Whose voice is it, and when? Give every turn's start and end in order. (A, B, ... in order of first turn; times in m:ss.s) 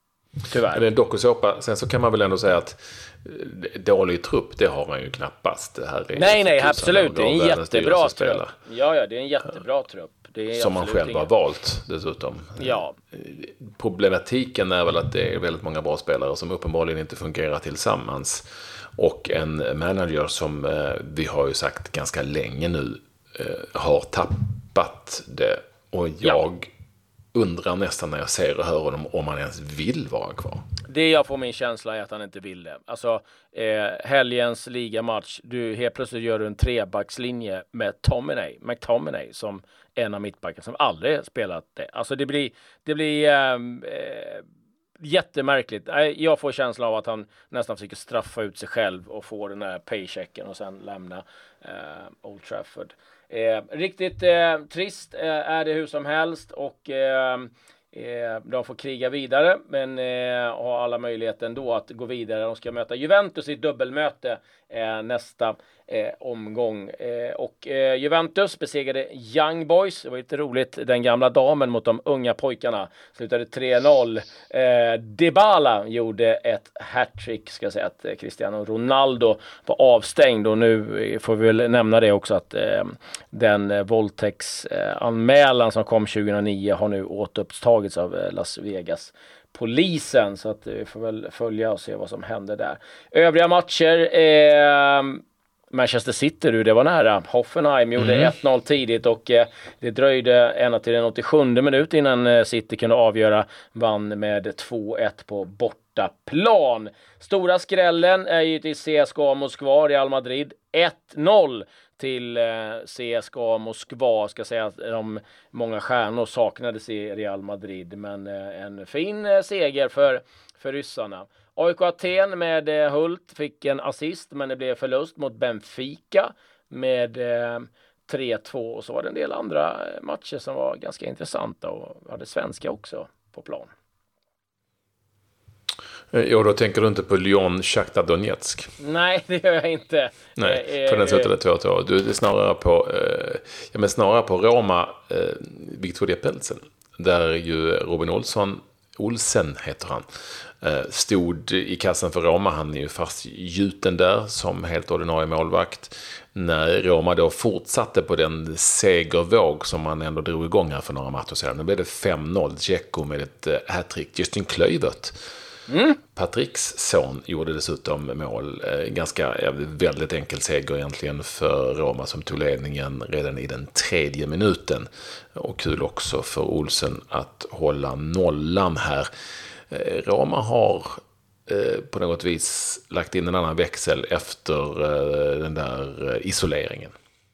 0:00.4-0:00.8 A
0:00.7-0:08.5 B
0:06.2-0:11.3 A
0:10.5-0:26.7 B
0:12.6-0:13.0 A
0:27.3-0:30.6 B
0:30.9-0:44.4 A
0:45.0-1:35.2 A
1:35.7-2:13.7 A
2:16.1-2:18.7 B
2:18.8-2:21.3 A
2:20.4-2:45.2 B
2:45.7-2:46.0 A
2:46.2-2:59.1 B
2:59.7-3:06.9 B